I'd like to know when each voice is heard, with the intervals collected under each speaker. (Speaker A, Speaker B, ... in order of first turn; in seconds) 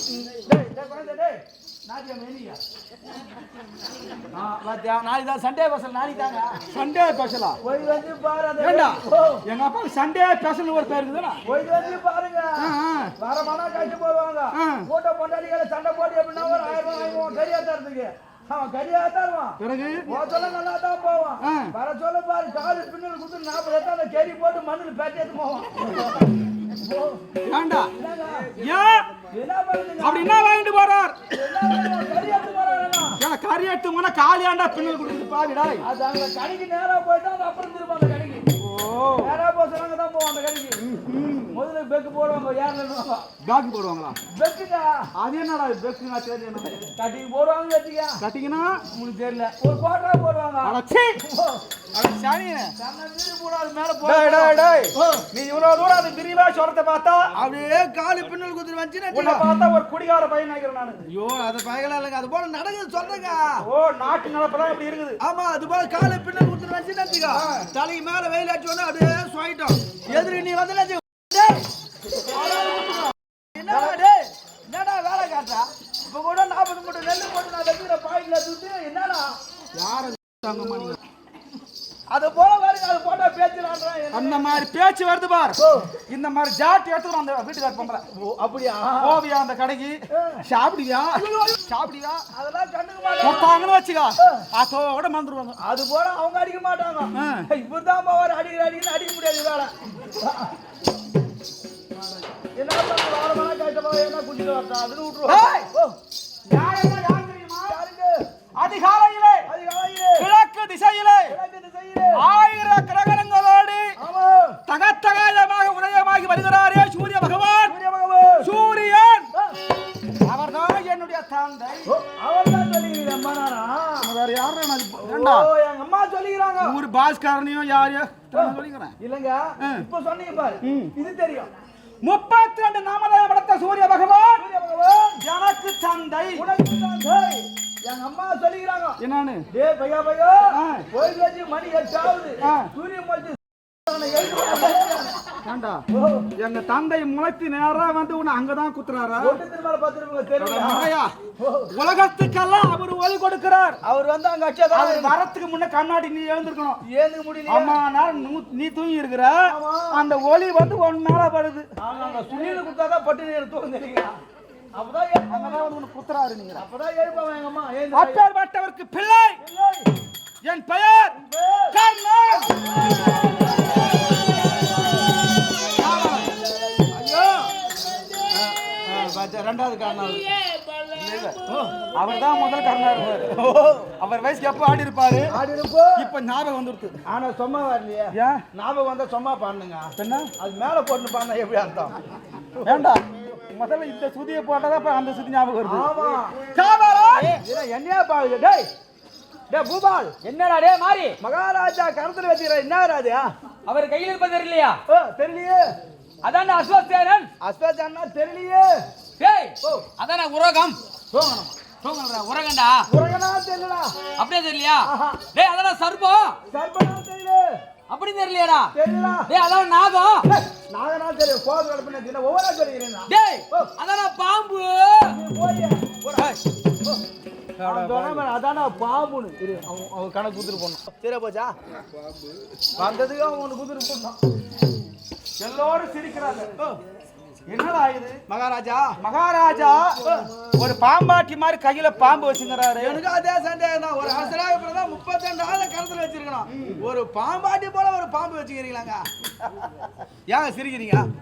Speaker A: 0.2-2.6, 4.3-6.6, 7.6-9.4, 11.4-27.2, 27.9-28.6, 29.3-30.3, 31.3-33.2, 35.8-38.5, 39.2-40.8, 41.5-43.3, 44.3-45.1, 46.9-48.2, 48.9-51.6, 52.8-55.2, 57.3-59.4, 61.1-63.6, 65.2-71.6, 72.4-73.0, 73.5-79.3, 82.1-84.6, 85.6-85.9, 88.1-89.2, 90.1-90.4, 91.1-91.5, 92.3-93.5, 95.6-100.5, 102.5-106.0, 107.7-108.2, 109.5-110.3, 111.3-112.2, 114.0-114.6, 117.6-118.5, 121.8-124.1, 125.0-126.8, 128.3-131.5, 134.4-135.2, 136.3-145.1, 145.9-146.3, 149.2-151.7, 153.8-155.2, 156.9-157.8, 159.4-160.0, 161.8-164.2, 164.7-165.7, 166.6-168.2, 169.4-169.9, 171.1-171.8, 172.3-174.7, 175.7-177.5, 178.3-180.3, 181.4-181.8, 183.3-183.9, 185.3-186.1, 187.1-191.9, 192.6-192.8, 195.6-196.4, 197.3-198.7, 199.5-200.2, 201.2-203.3, 204.9-205.7, 207.4-208.8, 209.6-209.9, 211.1-211.5, 212.9-213.9, 214.8-215.3, 216.5-217.5, 218.7-219.3, 220.2-223.7, 225.0-227.0, 227.6-231.5, 232.8-234.2, 238.3-238.9, 240.0-240.3, 242.8-249.0, 250.3-251.1
Speaker B: 6.7-7.6, 8.6-11.4, 12.6-13.1, 14.5-14.9, 19.6-20.1, 21.4-21.7, 27.4-27.9, 28.6-29.1, 30.0-31.2, 33.2-35.8, 38.6-39.4, 40.8-41.6, 43.4-44.1, 45.1-46.9, 48.2-48.9, 50.6-51.2, 51.9-52.7, 54.0-57.3, 59.1-61.0, 63.6-65.2, 67.3-67.7, 72.3-73.1, 73.7-74.0, 79.7-81.0, 84.1-88.0, 89.0-92.2, 93.2-95.6, 97.1-97.5, 105.2-105.7, 106.5-107.8, 108.6-109.5, 110.2-111.3, 112.1-113.9, 114.7-117.8, 118.4-119.3, 120.2-121.9, 124.0-125.5, 126.6-128.9, 129.6-129.8, 130.6-130.9, 132.0-134.4, 135.2-136.4, 139.0-139.5, 140.5-140.9, 142.4-142.7, 145.3-145.8, 146.4-149.4, 150.4-151.1, 151.7-153.8, 154.7-156.8, 157.5-161.7, 165.3-166.6, 167.9-169.4, 170.4-171.2, 171.7-172.6, 175.7-176.3, 180.9-181.4, 181.9-183.4, 184.0-185.3, 185.9-187.0, 188.1-188.4, 190.0-190.3, 192.6-195.9, 196.5-197.4, 215.4-215.8, 224.1-224.7, 227.6-228.3, 235.4-236.5, 237.5-238.2, 239.0-240.0, 240.5-243.0, 246.5-246.8
Speaker C: 200.2-201.1, 203.7-204.8, 206.2-207.3, 209.2-210.8, 211.8-212.8, 214.2-216.4, 217.9-218.7, 219.3-220.2, 223.1-225.0